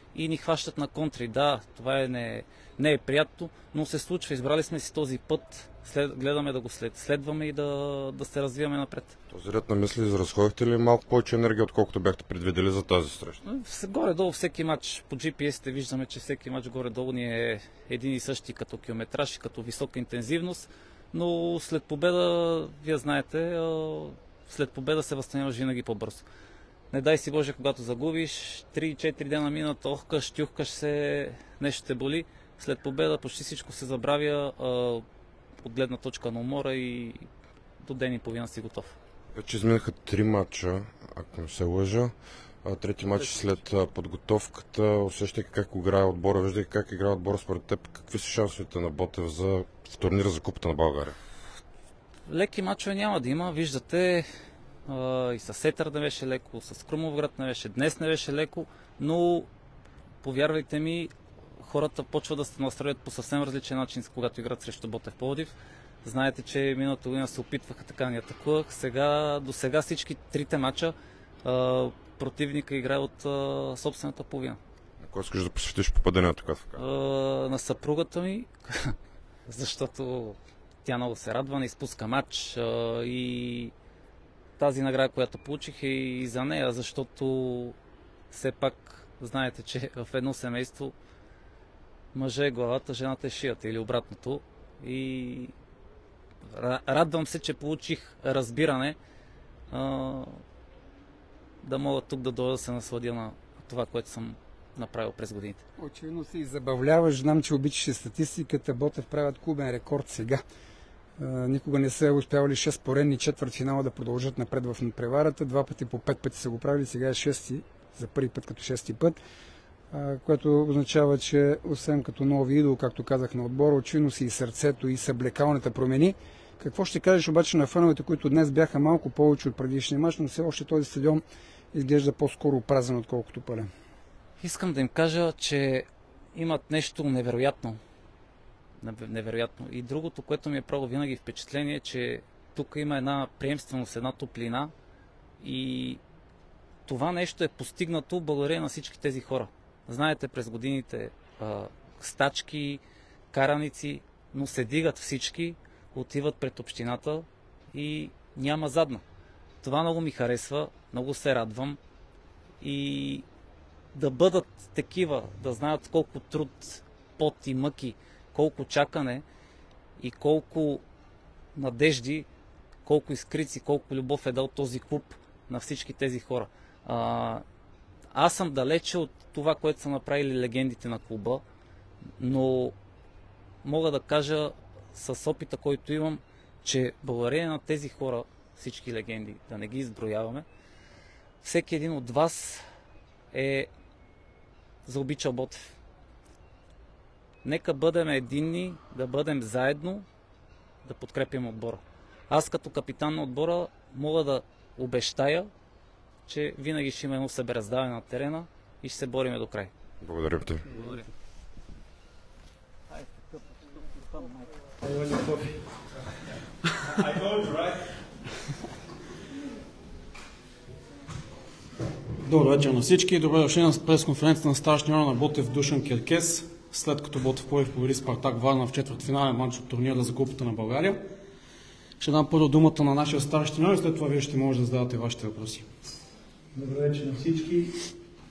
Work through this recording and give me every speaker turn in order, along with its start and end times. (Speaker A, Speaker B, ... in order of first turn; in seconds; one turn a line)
Speaker A: 0.1-9.1
Speaker B: 9.3-13.4
Speaker A: 13.4-26.2
Speaker A: 26.9-35.0
Speaker A: 35.6-37.3
Speaker A: 37.8-38.9
Speaker B: 39.3-51.2
Speaker A: 52.3-54.3
Speaker A: 54.9-59.5
Speaker A: 60.2-74.6
Speaker B: 75.0-76.8
Speaker A: 76.8-79.0
Speaker A: 79.5-83.7
Speaker A: 84.6-87.8
Speaker A: 88.3-91.0
Speaker A: 92.1-95.5
Speaker A: 96.5-99.0
Speaker A: 99.7-100.4
Speaker A: 101.6-105.6
Speaker C: 105.8-110.4
Speaker C: 111.2-119.2
Speaker C: 119.9-133.7
Speaker A: 134.4-137.8
Speaker A: 138.8-144.7
Speaker A: 145.4-146.0
Speaker A: 146.9-159.0
Speaker A: 159.6-161.8
Speaker A: 162.6-163.2
Speaker A: 163.9-169.2
Speaker A: 170.0-170.8
Speaker A: 171.6-172.3
Speaker A: 172.8-177.4
Speaker A: 178.1-181.4
Speaker A: 182.2-182.8
Speaker A: 183.6-190.4
Speaker A: 191.4-192.6
Speaker A: 193.3-193.7
Speaker A: 194.9-195.7
Speaker A: 197.4-200.1
Speaker A: 200.8-205.5
Speaker A: 206.3-209.7
Speaker B: 210.0-210.6
Speaker A: 210.7-211.1
Speaker D: 214.8-216.0
Speaker D: 216.7-217.9
Speaker E: 222.2-231.0
Speaker E: 232.0-235.7
Speaker D: 236.5-237.9